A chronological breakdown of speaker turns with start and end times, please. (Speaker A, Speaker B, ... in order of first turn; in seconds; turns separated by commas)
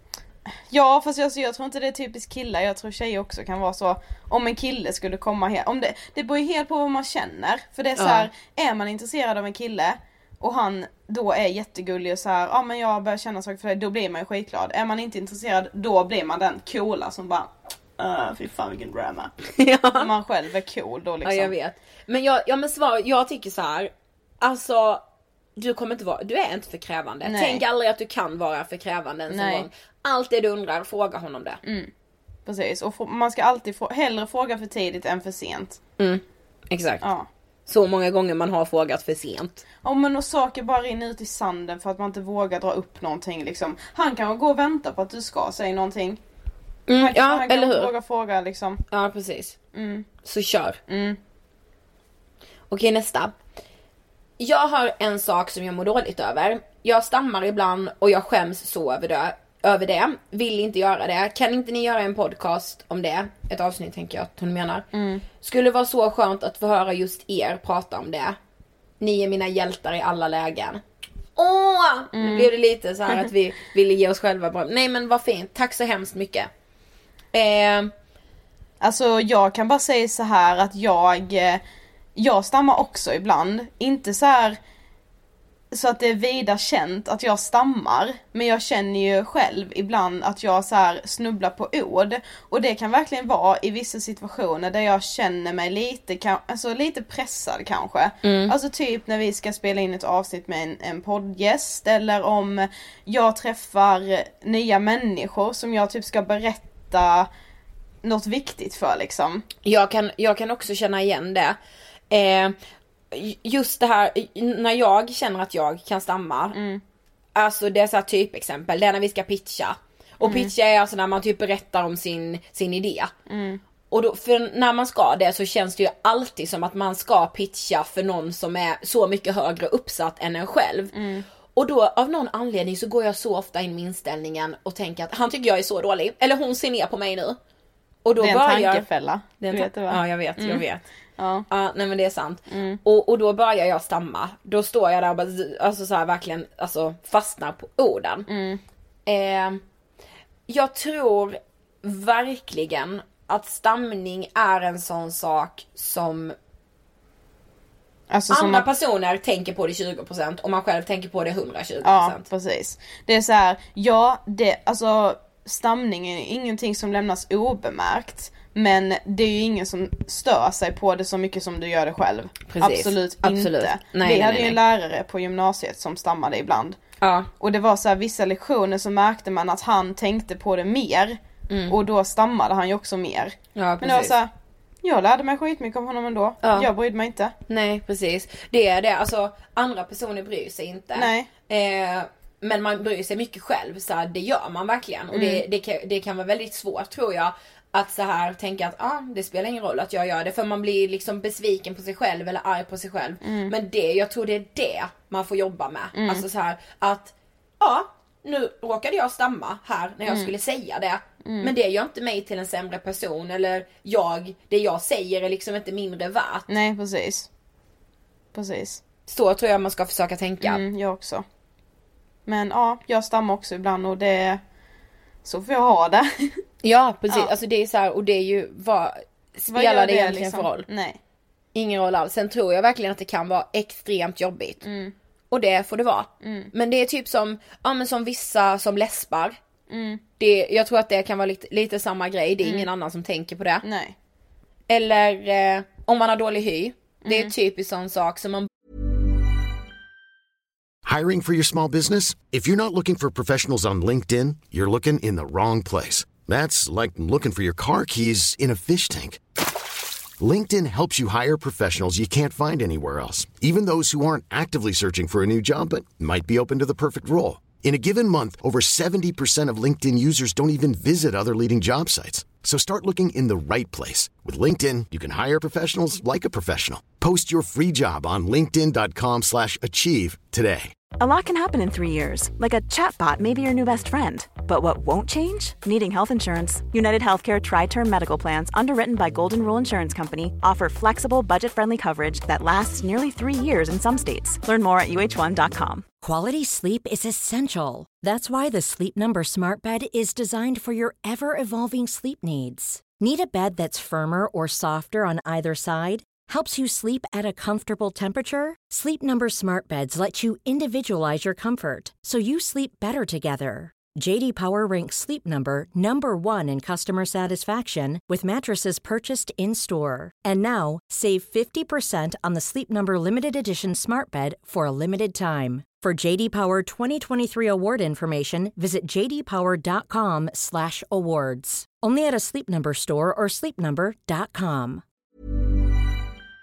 Speaker A: 0.7-19.3, Speaker B: 8.0-8.3, Speaker B: 19.6-20.1, Speaker A: 19.9-21.5, Speaker B: 21.2-25.0, Speaker B: 25.6-31.6, Speaker A: 27.2-27.6, Speaker A: 29.3-29.6, Speaker A: 31.6-31.9, Speaker A: 32.5-35.8, Speaker B: 36.0-37.0, Speaker A: 37.0-37.3, Speaker B: 37.7-39.6, Speaker A: 39.8-46.2, Speaker B: 46.9-47.9, Speaker A: 47.0-48.8, Speaker B: 48.9-49.5, Speaker A: 49.7-50.1, Speaker B: 50.2-50.8, Speaker A: 50.9-51.2, Speaker B: 52.7-53.4, Speaker B: 54.4-64.8, Speaker A: 64.9-65.2, Speaker B: 65.4-68.4, Speaker B: 69.0-70.8, Speaker B: 71.3-76.5, Speaker A: 72.1-72.5, Speaker B: 77.3-77.9, Speaker A: 78.8-81.6, Speaker A: 82.2-84.6, Speaker A: 85.7-107.3, Speaker B: 98.2-98.5, Speaker A: 108.0-109.5, Speaker B: 109.6-111.6, Speaker B: 112.1-112.5, Speaker B: 113.1-116.6, Speaker A: 116.5-116.8, Speaker B: 117.3-123.1, Speaker A: 120.2-120.5, Speaker A: 123.3-123.6, Speaker B: 123.9-130.9, Speaker A: 130.9-131.2, Speaker B: 131.5-137.4, Speaker B: 138.0-138.8, Speaker A: 138.2-140.6, Speaker B: 139.4-140.8, Speaker A: 141.2-141.5, Speaker B: 141.5-148.3, Speaker A: 142.5-142.8, Speaker A: 148.3-148.6, Speaker B: 149.1-149.6, Speaker B: 150.5-156.3, Speaker A: 158.1-158.6, Speaker B: 158.3-162.2, Speaker A: 161.8-176.8, Speaker B: 172.5-174.6, Speaker B: 177.0-177.3, Speaker A: 177.4-181.2, Speaker B: 181.5-181.8, Speaker A: 181.7-184.3, Speaker B: 183.6-184.2, Speaker A: 184.8-187.3, Speaker B: 186.4-186.7, Speaker B: 187.5-216.5, Speaker A: 190.9-191.3, Speaker A: 195.1-195.4, Speaker A: 203.2-203.5, Speaker A: 205.9-206.2, Speaker A: 211.2-211.5, Speaker A: 216.5-217.3, Speaker A: 218.3-218.8, Speaker B: 219.1-220.6, Speaker A: 220.4-221.2, Speaker A: 222.3-224.4, Speaker A: 225.2-226.4, Speaker B: 226.6-230.7, Speaker A: 229.5-231.0, Speaker B: 231.5-234.6, Speaker A: 234.6-234.9, Speaker B: 235.3-239.4, Speaker A: 236.2-236.5, Speaker A: 239.7-240.0, Speaker B: 240.2-243.6, Speaker A: 243.6-243.9, Speaker B: 244.7-248.5, Speaker A: 247.0-247.3, Speaker C: 250.8-259.2, Speaker C: 260.2-280.7, Speaker D: 281.0-295.8, Speaker E: 296.0-334.8